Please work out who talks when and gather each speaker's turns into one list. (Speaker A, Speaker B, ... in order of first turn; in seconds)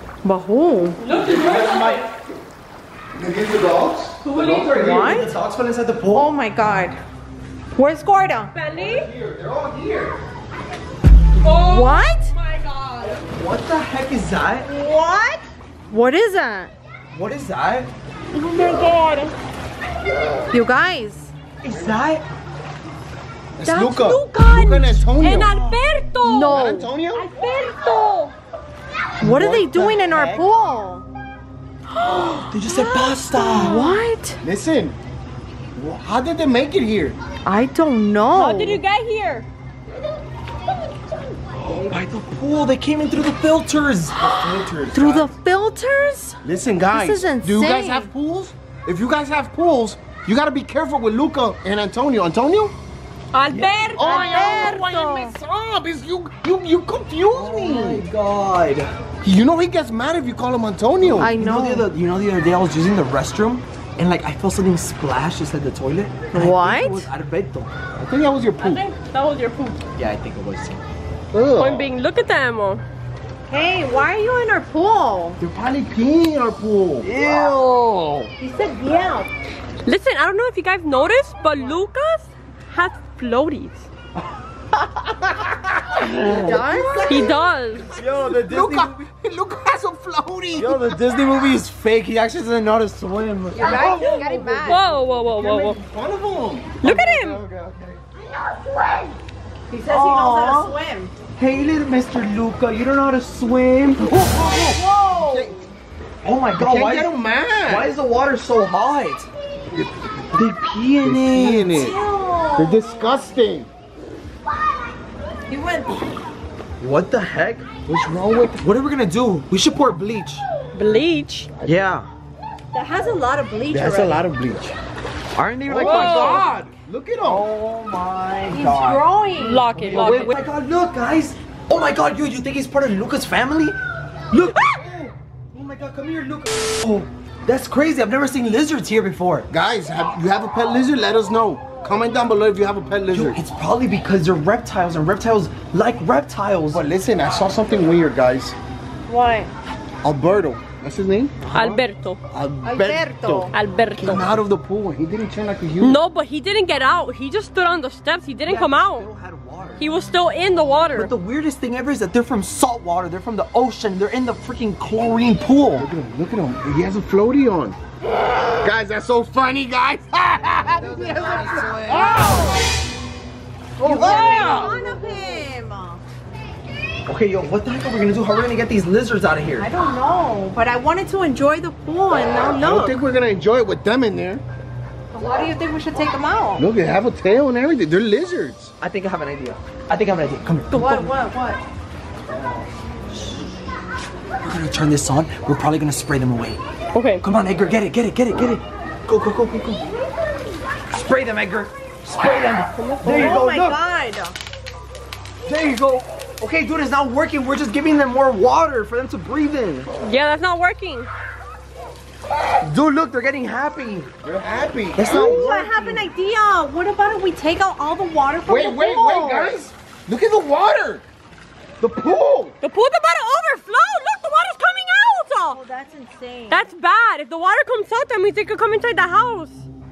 Speaker A: 0.2-1.0, 4.8-5.3, 6.1-7.0, 7.8-8.5, 11.4-12.3, 14.7-16.7, 20.5-21.3, 26.2-26.9, 29.2-31.1, 32.0-34.4, 37.5-38.8, 44.9-46.4, 46.9-48.1, 54.0-55.4, 61.2-61.9, 66.3-67.1, 73.5-75.4, 78.4-79.3, 86.2-87.4, 93.5-94.8, 99.7-101.1, 104.3-105.6, 111.7-113.3, 115.5-116.0, 122.7-124.3, 128.5-129.7, 149.1-149.5, 152.6-153.5, 173.8-176.0, 179.6-183.0, 185.1-186.6, 190.7-191.6, 203.0-204.4, 215.1-219.5, 225.5-226.7
Speaker B: 1.0-2.1, 4.2-5.0, 8.5-9.1, 11.4-13.2, 18.3-19.3, 23.7-26.6, 27.1-28.3, 33.5-34.0, 38.3-39.5, 53.3-54.8, 68.6-69.8, 71.6-72.8, 79.8-83.9, 87.1-88.0, 93.8-95.8, 96.8-97.4, 120.7-121.5, 125.8-126.5, 129.4-130.4, 151.5-152.2, 153.5-154.3, 155.8-159.1, 159.8-161.1, 174.2-174.8, 190.8-191.0, 196.9-197.2, 202.8-203.3, 210.0-211.1, 222.6-225.6, 226.5-229.7
Speaker C: 1.1-2.0, 4.3-6.3, 13.3-14.7, 17.1-17.9, 21.6-22.2, 25.3-25.8, 29.2-30.4, 32.5-33.8, 41.6-44.2, 53.5-53.9, 57.3-58.9, 61.0-67.7, 70.0-70.8, 77.0-78.3, 85.9-87.4, 87.9-89.0, 90.6-94.8, 96.8-98.0, 99.9-100.8, 101.4-104.8, 106.2-109.3, 110.3-111.8, 116.8-117.7, 118.6-120.4, 121.6-122.1, 123.7-124.7, 125.3-126.5, 127.2-129.1, 129.7-133.8, 134.3-139.5, 143.1-146.8, 158.4-160.0, 160.9-165.9, 170.7-172.5, 173.8-175.0, 177.1-179.7, 188.8-191.1, 194.4-196.6, 197.2-199.8, 200.9-203.8, 205.5-209.9, 212.6-214.1, 214.9-216.1, 221.8-222.5
Speaker D: 3.1-4.5, 8.8-10.2, 23.6-25.6, 26.5-27.3, 34.4-35.0, 35.8-37.2, 44.2-45.3, 46.4-52.8, 54.0-58.0, 59.2-61.3, 68.0-68.8, 71.3-71.9, 75.4-77.1, 88.1-91.0, 95.2-96.7, 105.1-105.7, 106.6-107.9, 111.0-112.0, 112.6-113.7, 117.9-118.6, 125.7-127.5, 139.5-143.4, 146.7-148.6, 150.0-151.8, 152.3-156.0, 165.8-167.8, 168.6-172.5, 173.8-174.8, 182.5-184.4, 186.6-188.7, 214.2-215.5, 218.5-221.0